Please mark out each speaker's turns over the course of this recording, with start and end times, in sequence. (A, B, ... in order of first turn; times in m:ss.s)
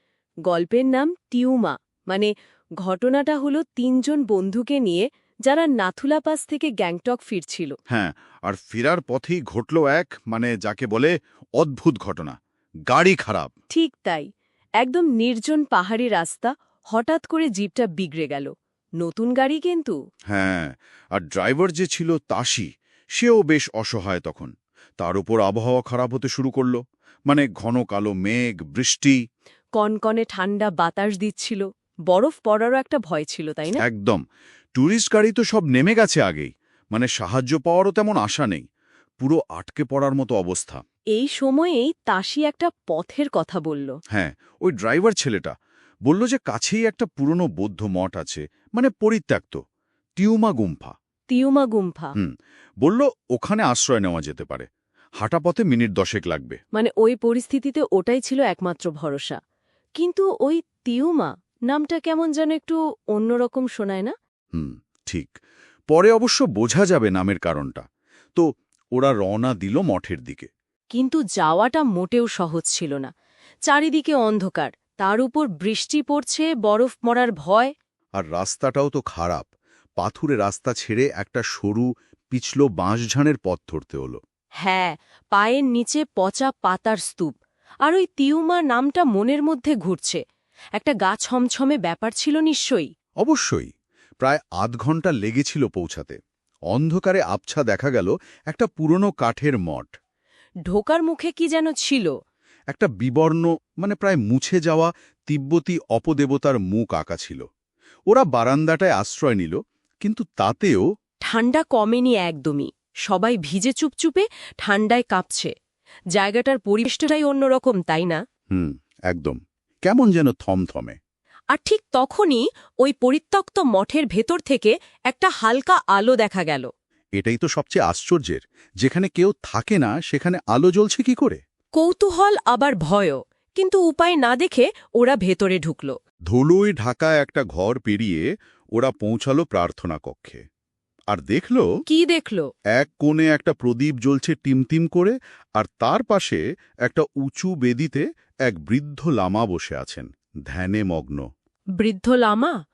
0:00.5-0:02.3 A
0:02.8-0:07.7 A
0:07.9-0:12.4 B
0:12.9-0:13.5 B
0:13.7-0:14.3 A
0:14.8-0:20.0 A
0:20.3-0:29.2 B
0:29.8-0:33.8 A
0:33.8-0:34.2 B
0:34.8-0:38.6 B
0:39.2-0:40.8 B
0:41.1-0:43.9 A
0:44.1-0:45.5 B
0:46.0-0:49.6 B
0:50.2-0:50.9 B
0:51.3-0:52.1 A
0:52.2-0:54.7 B
0:55.2-0:56.6 B
0:56.7-0:59.4 A
1:00.0-1:04.1 A
1:04.5-1:05.3 B
1:05.9-1:10.5 B
1:10.9-1:13.1 A
1:13.6-1:17.7 A
1:18.2-1:24.2 B
1:24.6-1:30.2 A
1:30.8-1:32.9 A
1:33.2-1:36.2 B
1:36.7-1:39.9 B
1:40.6-1:42.1 A
1:42.7-1:47.4 B
1:48.1-1:50.8 B
1:51.2-1:55.5 A
1:56.1-1:58.2 A
1:58.5-2:01.0 B
2:01.5-2:06.7 A
2:07.2-2:11.4 B
2:11.8-2:16.0 A
2:16.3-2:20.4 B
2:21.1-2:21.7 B
2:21.9-2:22.5 A
2:22.7-2:31.2 B
2:31.8-2:32.5 A